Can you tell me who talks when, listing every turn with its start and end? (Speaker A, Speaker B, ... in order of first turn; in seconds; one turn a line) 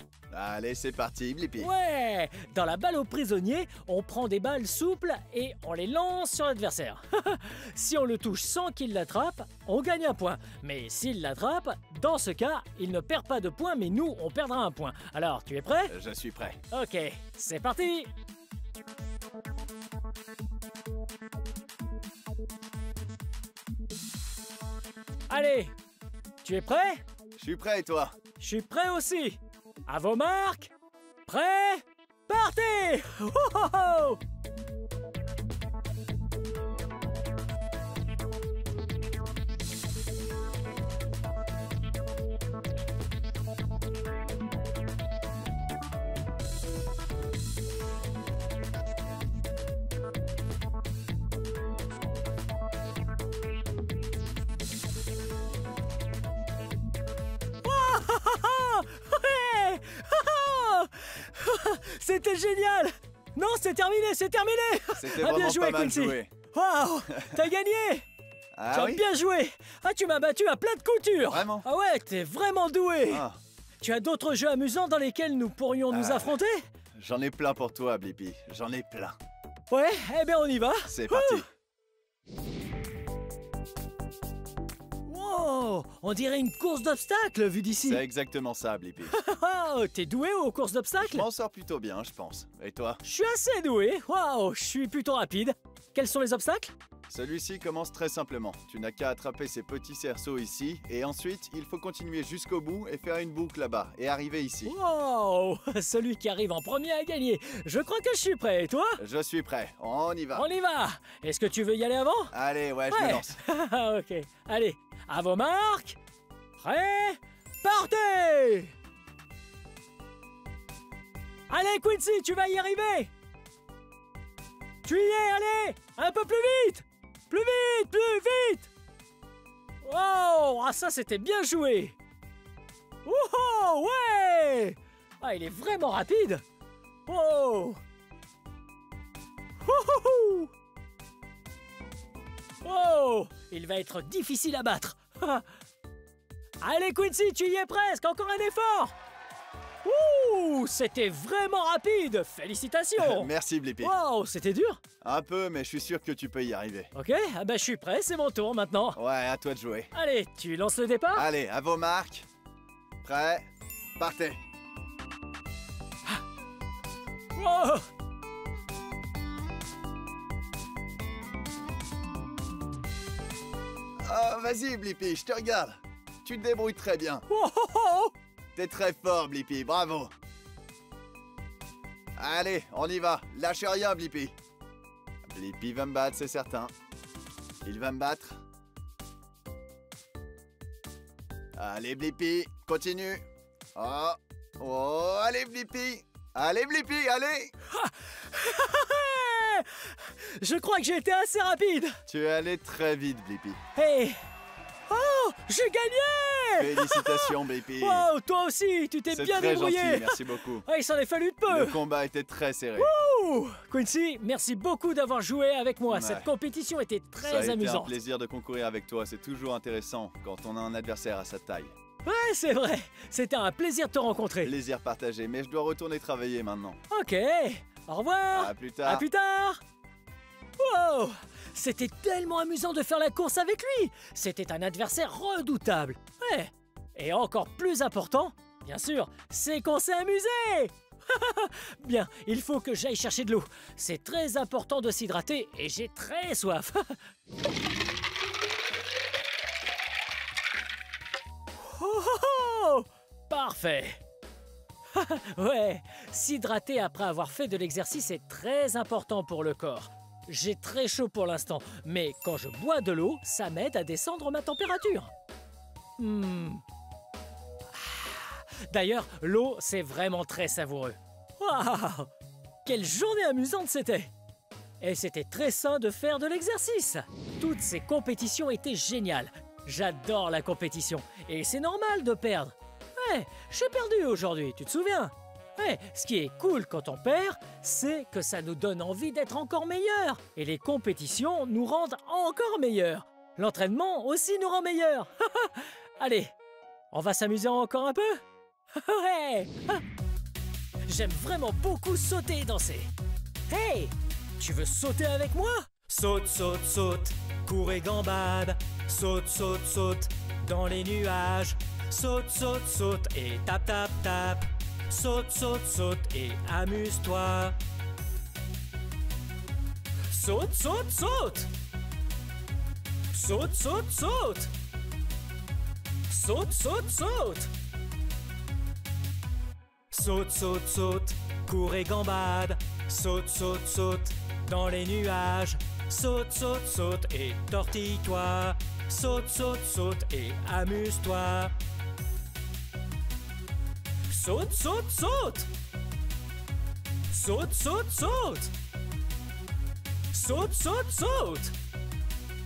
Speaker A: 0.3-1.7
Speaker B: 1.6-15.9
Speaker A: 15.9-16.6
Speaker B: 16.7-18.1
Speaker B: 25.3-25.7
Speaker B: 26.4-27.0
Speaker A: 27.4-28.1
Speaker B: 28.4-30.7
Speaker B: 31.3-34.2
Speaker B: 57.6-68.0
Speaker A: 65.0-66.3
Speaker A: 68.6-69.0
Speaker B: 68.7-73.3
Speaker A: 71.2-71.7
Speaker A: 73.1-73.4
Speaker B: 73.8-76.6
Speaker A: 75.9-76.3
Speaker A: 77.0-79.2
Speaker B: 79.7-81.4
Speaker A: 80.9-81.5
Speaker B: 85.0-88.0
Speaker A: 87.8-89.1
Speaker B: 89.1-91.3
Speaker A: 91.0-93.0
Speaker B: 93.0-96.7
Speaker A: 97.1-104.7
Speaker B: 104.6-109.0
Speaker A: 109.0-110.5
Speaker B: 110.3-112.3
Speaker A: 112.3-113.4
Speaker B: 112.9-116.0
Speaker B: 116.6-118.7
Speaker B: 121.5-123.1
Speaker B: 124.8-128.7
Speaker B: 129.8-131.9
Speaker B: 133.0-136.4
Speaker B: 137.1-137.8
Speaker B: 139.6-140.5
Speaker B: 142.6-145.4
Speaker B: 146.6-148.9
Speaker B: 149.8-154.8
Speaker A: 153.0-153.9
Speaker A: 155.0-156.9
Speaker B: 156.9-159.0
Speaker A: 158.9-159.9
Speaker B: 159.9-161.3
Speaker A: 161.2-162.2
Speaker A: 163.0-164.4
Speaker B: 167.3-167.8
Speaker A: 174.0-177.2
Speaker B: 177.3-178.1
Speaker A: 178.5-180.1
Speaker A: 182.2-184.3
Speaker A: 185.3-186.7
Speaker A: 187.6-188.4
Speaker A: 191.6-193.2
Speaker A: 193.7-197.5
Speaker B: 197.7-202.0
Speaker A: 202.1-203.6
Speaker B: 203.7-204.2
Speaker B: 204.9-211.8
Speaker A: 206.6-208.1
Speaker A: 209.1-210.6
Speaker A: 211.5-212.9
Speaker B: 212.8-217.9
Speaker A: 215.9-216.3
Speaker A: 217.2-221.7
Speaker B: 222.0-224.5
Speaker A: 224.4-226.8
Speaker B: 226.9-229.6
Speaker A: 228.3-229.1
Speaker B: 230.6-247.0
Speaker B: 251.6-254.0
Speaker B: 254.9-265.1
Speaker B: 266.0-266.6
Speaker B: 267.7-272.1
Speaker B: 272.6-274.1
Speaker B: 274.8-296.3
Speaker B: 296.9-298.2
Speaker B: 298.7-299.8
Speaker B: 300.8-302.9
Speaker B: 303.5-317.6
Speaker B: 320.1-321.5
Speaker B: 323.1-324.5
Speaker B: 326.1-327.5
Speaker B: 329.9-341.5
Speaker B: 344.1-345.5
Speaker B: 347.1-348.5
Speaker B: 350.1-351.6